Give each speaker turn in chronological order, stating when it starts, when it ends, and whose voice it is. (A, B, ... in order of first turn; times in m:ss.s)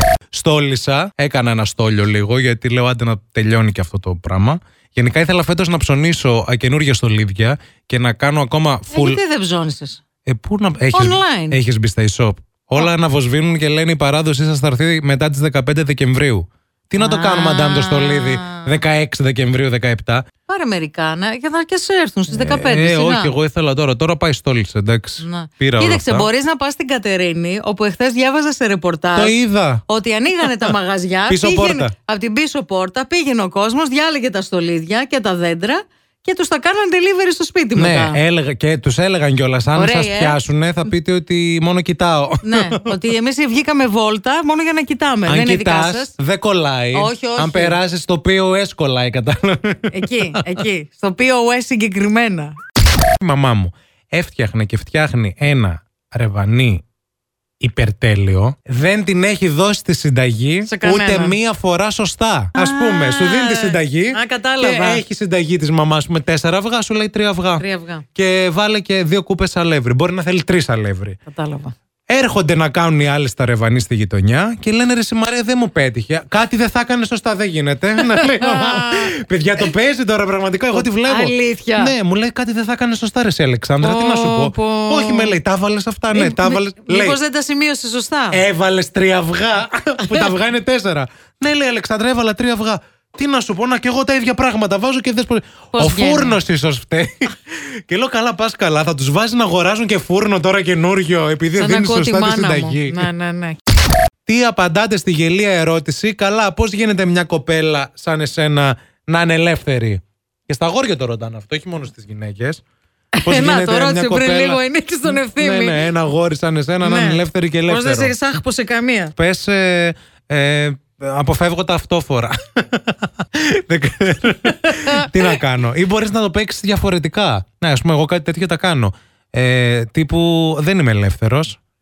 0:00.3-0:09.2 A
0:08.9-0:10.0 B
0:10.2-0:20.2 A
0:10.9-0:11.6 B
0:17.0-0:18.8 B
0:20.4-0:23.3 B
0:22.3-0:26.3 A
0:25.2-0:38.2 B
0:29.1-0:29.8 A
0:30.4-0:30.7 A
0:31.3-0:31.9 A
0:37.8-0:43.0 A
0:39.7-0:40.4 B
0:42.4-0:46.1 B
0:45.2-0:50.5 A
0:46.9-0:47.8 B
0:49.9-0:52.5 B
0:53.2-0:56.8 A
0:57.6-1:11.2 A
1:00.6-1:01.4 B
1:02.5-1:05.0 B
1:07.6-1:08.0 B
1:11.3-1:11.7 B
1:12.1-1:27.2 A
1:18.0-1:19.1 B
1:20.7-1:21.9 B
1:23.8-1:25.4 B
1:26.1-1:28.4 B
1:28.3-1:43.1 A
1:30.0-1:30.3 B
1:35.7-1:36.4 B
1:41.6-1:43.6 B
1:44.2-1:52.6 A
1:53.1-1:55.8 B
1:53.2-1:58.1 A
1:56.8-1:59.1 B
1:59.2-2:11.6 A
2:04.6-2:05.1 B